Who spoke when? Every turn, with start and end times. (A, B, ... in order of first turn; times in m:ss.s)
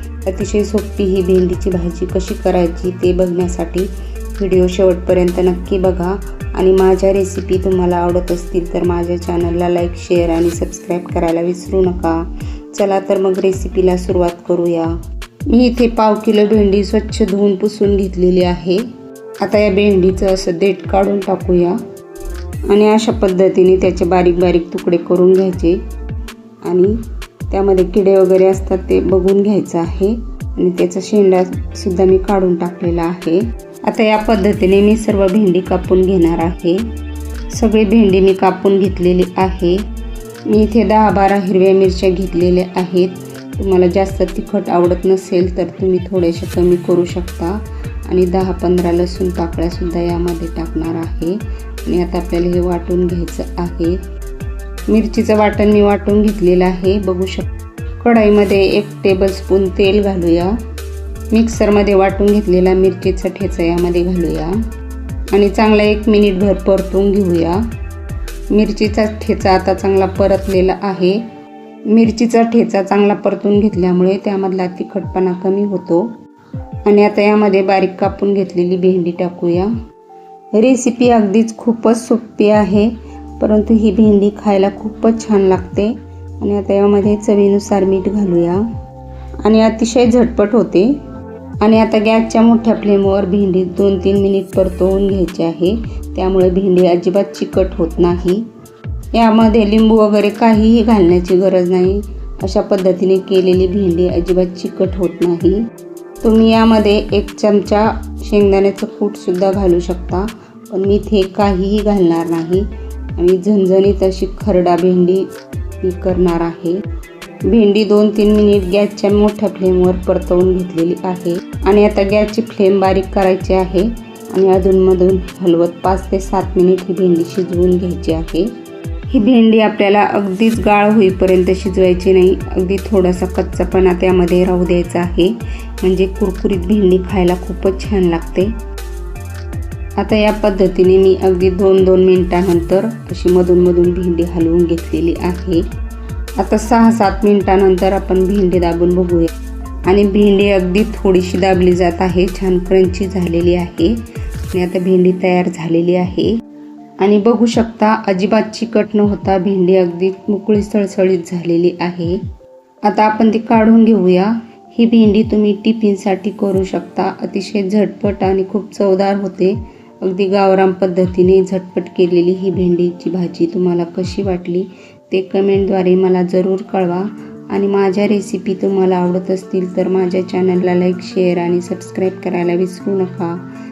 0:00.3-0:12.2 A
0:12.7-0:14.9 A
0:15.5-0:18.8 A
0:19.4-0:21.8 A
0:22.7-0:25.8 A
0:26.6-0:27.0 A
0:27.5-0:36.8 A
0:37.5-0:39.8 A
0:40.5-0:54.0 A
0:54.9-0:57.5 A
0:58.0-1:00.5 A
1:01.3-1:04.5 A
1:05.3-1:07.6 A
1:08.5-1:11.2 A
1:11.9-1:16.1 A
1:16.8-1:19.7 A
1:20.5-1:28.6 A
1:29.4-1:30.9 A
1:31.6-1:38.4 A
1:39.1-1:45.6 A
1:46.2-1:55.2 A
1:55.8-1:56.8 A
1:57.5-2:08.5 A
2:09.1-2:18.5 A
2:20.0-2:25.6 A
2:26.4-2:29.3 A
2:29.9-2:33.9 A
2:34.5-2:36.3 A
2:37.0-2:42.2 A
2:42.8-3:03.4 A